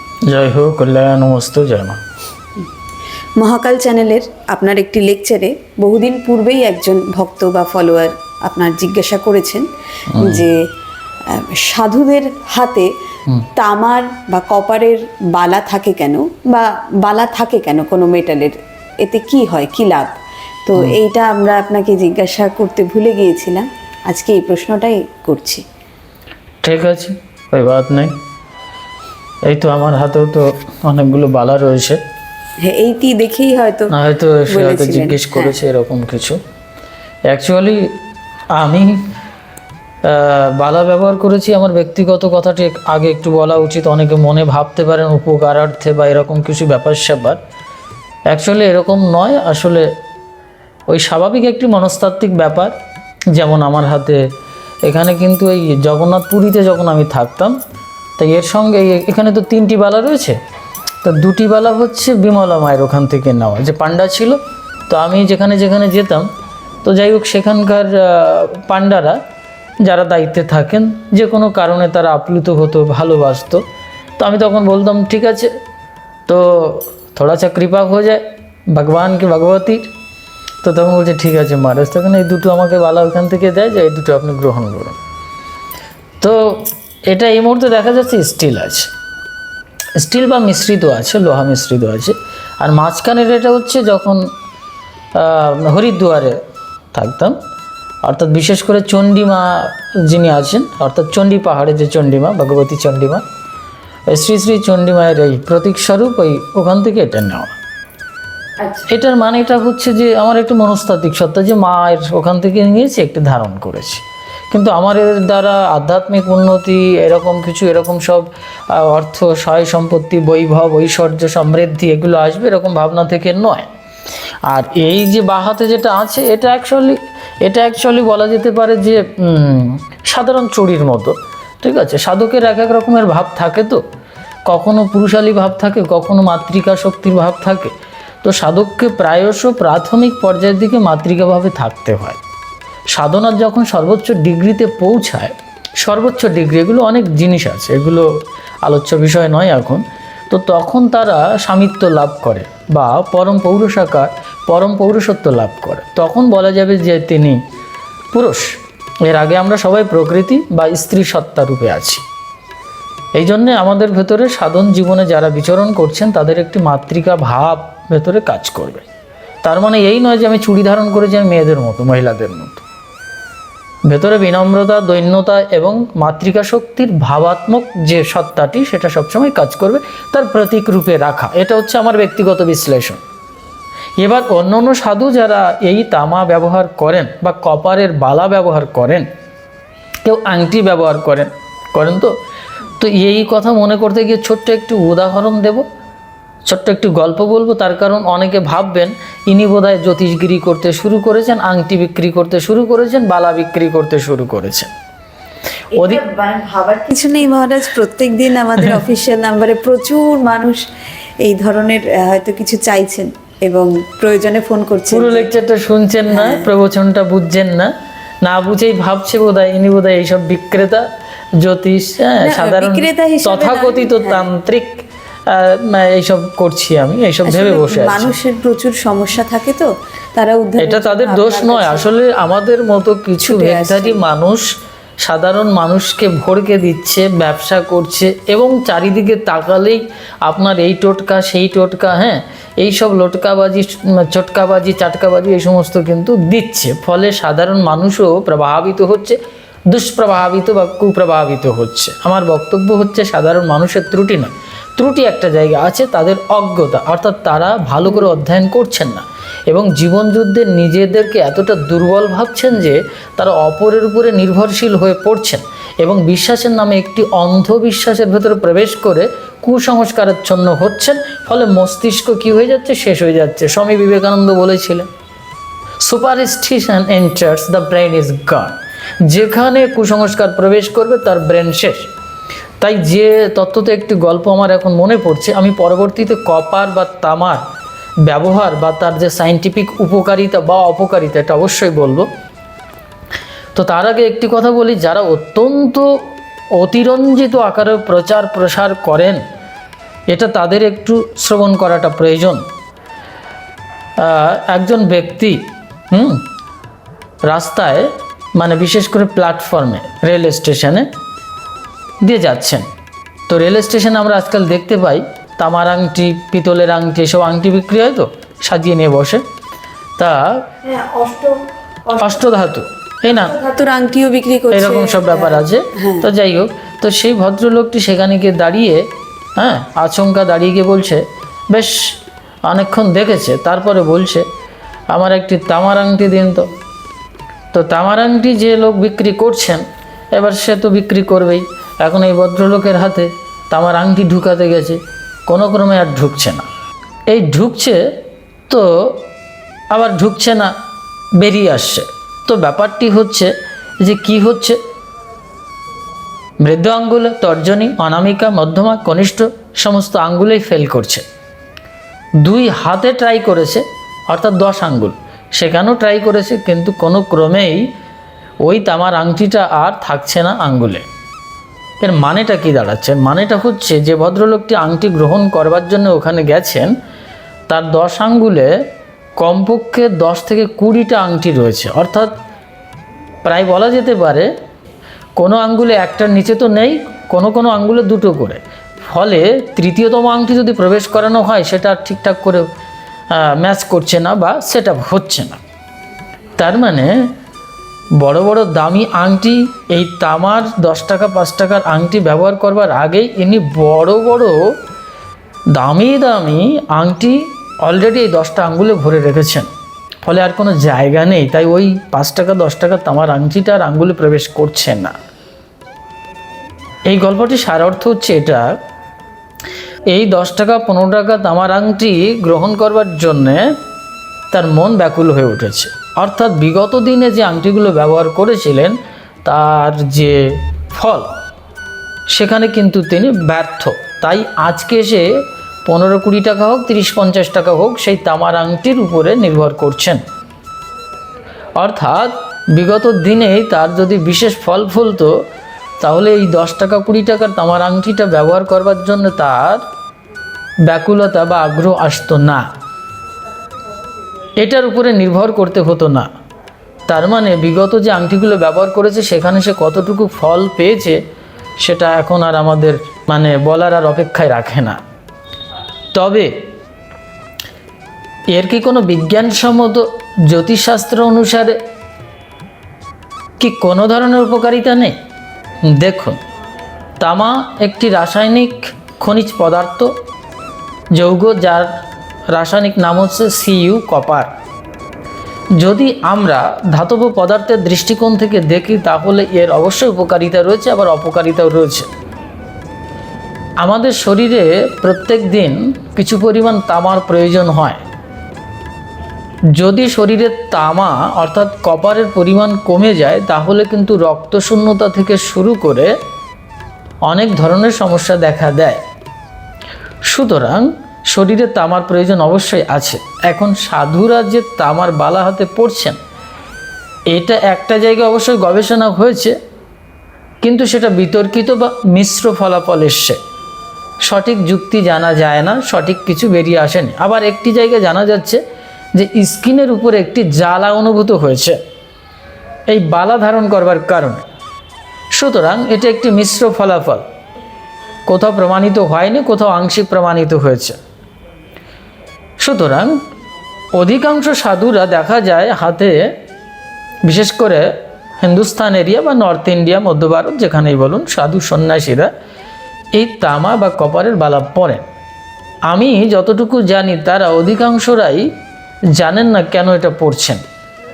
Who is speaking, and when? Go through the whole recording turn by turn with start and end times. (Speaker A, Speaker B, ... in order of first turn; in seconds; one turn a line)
Speaker A: 0.2-2.0
Speaker B: 3.4-10.6
Speaker A: 10.1-10.4
Speaker B: 11.3-12.9
Speaker B: 13.5-20.1
Speaker B: 20.7-25.6
Speaker A: 26.6-28.2
Speaker A: 29.4-32.0
Speaker B: 32.6-33.9
Speaker A: 33.9-36.4
Speaker B: 34.5-35.5
Speaker A: 37.3-37.9
Speaker A: 38.5-39.0
Speaker A: 40.0-47.4
Speaker A: 48.3-49.9
Speaker A: 50.9-52.7
Speaker A: 53.3-54.2
Speaker A: 54.8-57.6
Speaker A: 58.2-60.4
Speaker A: 61.0-64.4
Speaker A: 64.9-66.3
Speaker A: 66.8-69.2
Speaker A: 69.8-73.6
Speaker A: 74.2-75.5
Speaker A: 76.3-79.9
Speaker A: 80.6-85.0
Speaker A: 86.2-88.9
Speaker A: 90.0-94.2
Speaker A: 95.1-96.4
Speaker A: 96.9-97.3
Speaker A: 98.0-103.2
Speaker A: 104.1-107.5
Speaker B: 108.6-108.9
Speaker A: 108.9-123.7
Speaker A: 124.5-133.8
Speaker A: 134.5-142.2
Speaker A: 142.9-148.1
Speaker A: 148.6-157.4
Speaker A: 158.1-162.0
Speaker A: 163.2-168.8
Speaker A: 169.4-172.6
Speaker A: 173.9-183.0
Speaker A: 184.0-189.1
Speaker A: 190.0-192.1
Speaker A: 192.8-195.6
Speaker A: 196.4-204.7
Speaker B: 205.7-210.6
Speaker A: 205.8-206.0
Speaker B: 211.2-215.3
Speaker A: 214.9-220.8
Speaker B: 216.1-216.5
Speaker A: 221.4-228.1
Speaker B: 222.2-224.3
Speaker B: 227.2-231.9
Speaker A: 230.6-234.5
Speaker B: 233.2-234.0
Speaker A: 235.0-249.2
Speaker A: 249.7-274.9
Speaker A: 275.8-281.9
Speaker A: 282.6-287.4
Speaker A: 288.0-292.1
Speaker A: 293.5-295.9
Speaker A: 296.6-299.2
Speaker A: 300.1-302.4
Speaker A: 304.0-306.2
Speaker A: 307.2-310.9
Speaker A: 312.0-312.6
Speaker A: 313.3-319.2
Speaker A: 320.0-320.4
Speaker B: 320.6-322.2
Speaker A: 322.0-323.3
Speaker B: 323.1-326.1
Speaker A: 324.5-334.3
Speaker A: 334.9-336.5
Speaker A: 337.5-346.4
Speaker A: 347.1-347.8
Speaker A: 348.5-349.0
Speaker A: 349.7-350.5
Speaker A: 351.2-353.3
Speaker A: 353.8-354.6
Speaker A: 356.4-361.0
Speaker A: 362.2-367.7
Speaker A: 368.4-370.9
Speaker A: 371.8-376.7
Speaker A: 377.5-378.5
Speaker A: 379.2-382.1
Speaker A: 383.2-384.3
Speaker A: 385.2-392.4
Speaker A: 393.1-395.4
Speaker A: 396.4-396.9
Speaker A: 398.0-404.4
Speaker A: 405.5-409.5
Speaker A: 410.0-414.9
Speaker A: 416.9-418.5
Speaker A: 419.9-423.5
Speaker A: 424.3-431.1
Speaker A: 432.1-435.1
Speaker A: 435.6-440.0
Speaker A: 441.6-445.1
Speaker A: 445.8-449.6
Speaker A: 450.7-452.4
Speaker A: 454.4-456.1
Speaker A: 456.9-461.0
Speaker A: 461.6-464.8
Speaker A: 465.9-466.3
Speaker A: 468.3-471.6
Speaker A: 473.4-474.9
Speaker A: 475.7-476.2
Speaker A: 477.0-479.9
Speaker A: 480.9-481.7
Speaker A: 482.3-484.3
Speaker A: 485.6-491.9
Speaker A: 493.6-497.8
Speaker A: 499.5-505.9
Speaker A: 507.1-508.8
Speaker A: 510.1-516.0
Speaker A: 517.1-519.3
Speaker A: 520.4-523.2
Speaker A: 524.0-528.4
Speaker A: 528.9-531.6
Speaker A: 532.7-534.2
Speaker A: 535.1-537.0
Speaker A: 538.1-540.8
Speaker A: 542.4-542.9
Speaker A: 543.8-546.1
Speaker A: 547.0-547.7
Speaker A: 548.2-552.1
Speaker A: 552.9-554.8
Speaker A: 555.7-558.3
Speaker A: 558.9-560.4